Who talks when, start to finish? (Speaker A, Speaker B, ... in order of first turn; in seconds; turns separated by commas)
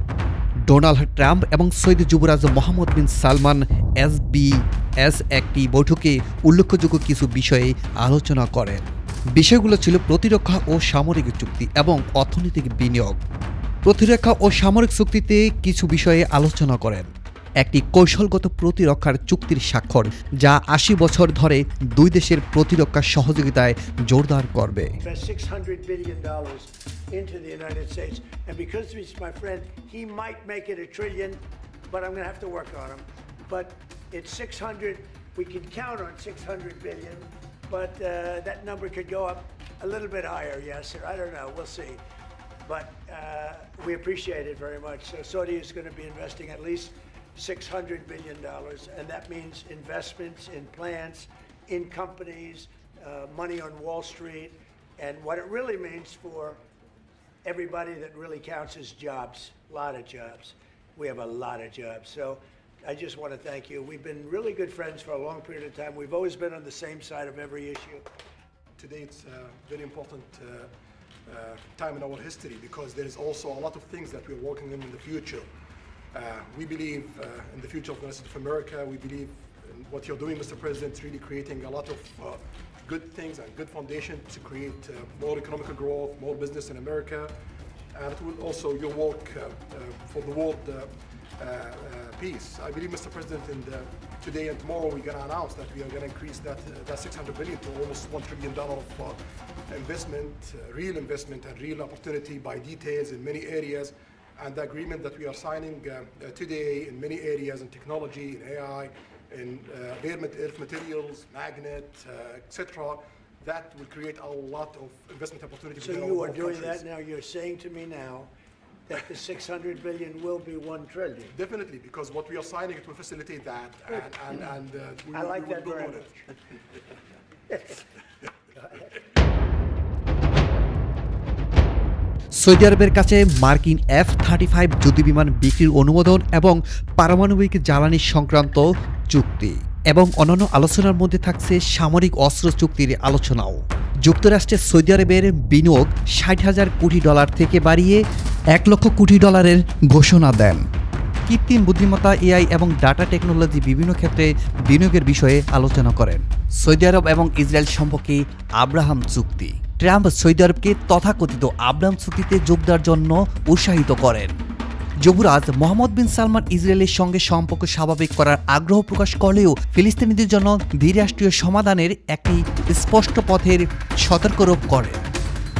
Speaker A: 0.7-8.8, Speaker A: 9.4-13.2, Speaker A: 13.9-17.1, Speaker A: 17.6-24.9, Speaker B: 25.0-42.0, Speaker B: 42.6-56.6, Speaker B: 57.4-68.1, Speaker C: 68.8-70.7, Speaker C: 71.3-75.5, Speaker C: 76.1-87.3, Speaker C: 87.9-116.8, Speaker B: 115.8-118.3, Speaker B: 118.9-121.3, Speaker C: 121.3-126.3, Speaker B: 125.1-126.2, Speaker B: 127.5-127.9, Speaker B: 128.5-128.9, Speaker A: 132.4-148.0, Speaker A: 148.5-150.6, Speaker A: 151.3-164.3, Speaker A: 165.0-175.0